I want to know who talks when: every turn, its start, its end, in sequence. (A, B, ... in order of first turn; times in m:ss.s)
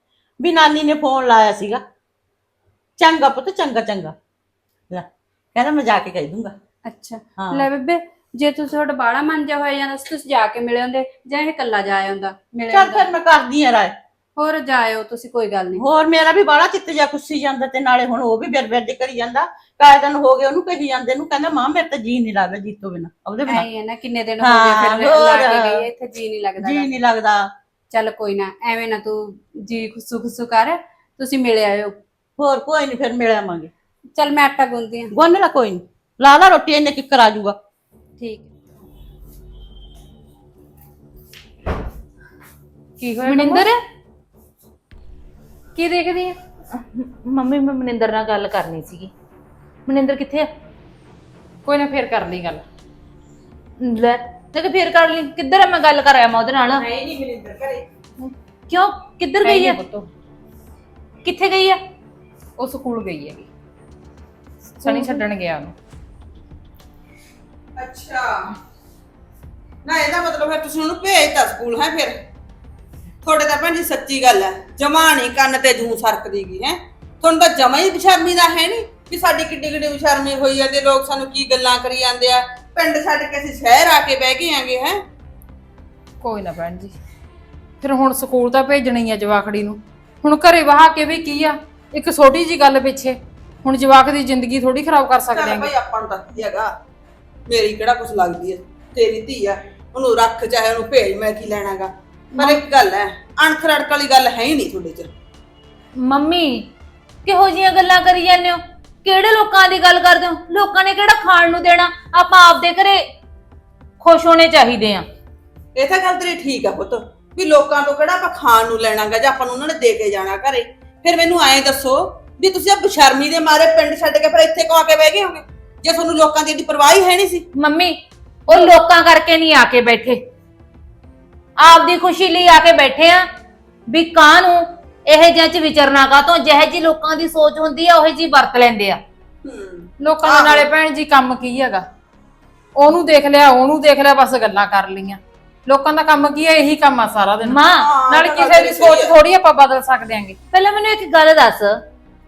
0:00.4-0:01.8 A
0:03.0-0:04.1 A
0:04.9-0:06.5 A
0:06.8-0:13.1 B
0:07.4-0:07.7 A
0:12.7-0:14.0 A
0:14.4-0:15.8 B
0:15.8-0:23.6 A
0:23.4-0:26.9 B
0:24.4-0:25.9 A
0:26.6-0:27.5 A
0:27.9-0:31.9 B
0:32.4-0:33.7 A
0:34.1-0:35.1 B
0:35.1-0:37.6 A
0:38.2-0:38.5 B
0:43.0-0:43.6 C
0:43.2-0:43.7 D
0:45.8-0:46.4 C
0:46.8-0:49.1 D
0:49.8-0:50.5 D
0:51.6-0:52.6 C
0:53.8-0:56.8 D
0:56.7-0:57.8 E
0:58.2-0:59.8 D
0:59.4-1:00.1 C
1:01.2-1:01.8 D
1:02.6-1:03.5 C
1:04.8-1:05.7 C
1:04.8-1:05.2 D
1:07.8-1:08.4 E
1:09.8-1:12.1 E
1:13.2-1:25.0 E
1:26.2-1:27.0 C
1:27.8-1:35.7 C
1:35.3-1:36.7 E
1:37.5-1:45.1 E
1:46.0-1:46.7 D
1:47.2-1:53.0 D
1:54.0-1:55.0 D
1:55.7-2:07.4 E
2:07.6-2:08.0 D
2:08.5-2:10.2 D
2:11.6-2:13.2 D
2:13.9-2:19.0 D
2:19.4-2:20.7 E
2:20.0-2:21.8 C
2:22.8-2:30.4 C
2:27.4-2:27.9 D
2:27.7-2:29.1 E
2:30.5-2:31.7 D